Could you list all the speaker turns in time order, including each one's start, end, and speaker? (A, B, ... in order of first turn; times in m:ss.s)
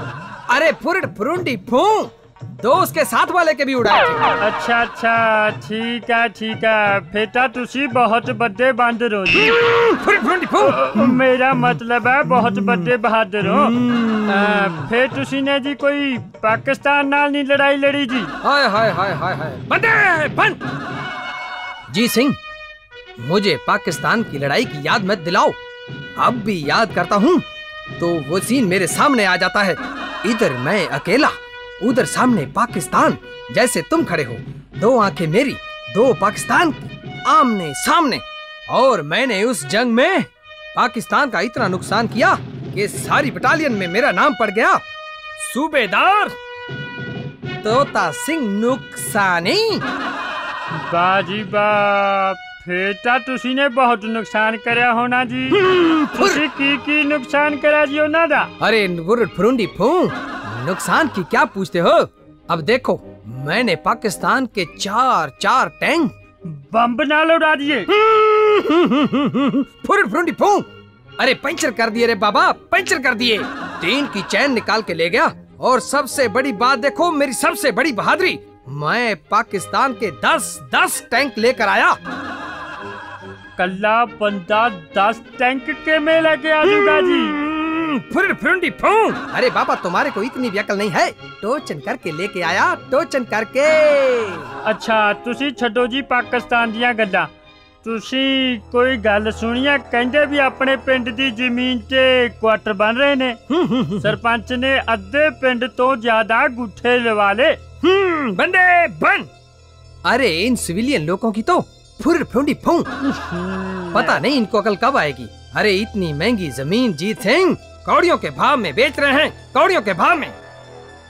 0:00.5-0:04.3 A
0:04.4-0:09.6 B
0:09.4-0:11.2 A
0:10.6-0:13.7 B
0:12.4-0:12.8 A
0:13.4-0:14.8 A
0:14.3-0:18.3 B
0:18.4-0:20.6 A
0:21.9-0:22.4 A
0:23.2-0:25.6 A
0:26.2-0:27.4 A
0:28.0-0:44.8 A
0:45.4-0:46.3 A
0:47.6-0:49.8 A
0:50.8-0:55.6 B
0:55.5-0:56.4 A
0:56.2-0:58.5 B
0:58.6-1:06.1 A
1:06.5-1:07.9 B
1:07.9-1:10.7 A
1:11.2-1:22.0 A
1:23.6-1:27.3 B
1:26.7-1:34.5 A
1:34.6-1:37.3 B
1:37.8-1:43.4 B
1:43.5-1:44.1 A
1:44.0-1:47.6 B
1:47.8-1:49.3 A
1:50.0-1:52.9 A
1:53.4-1:54.2 B
1:53.9-2:00.3 A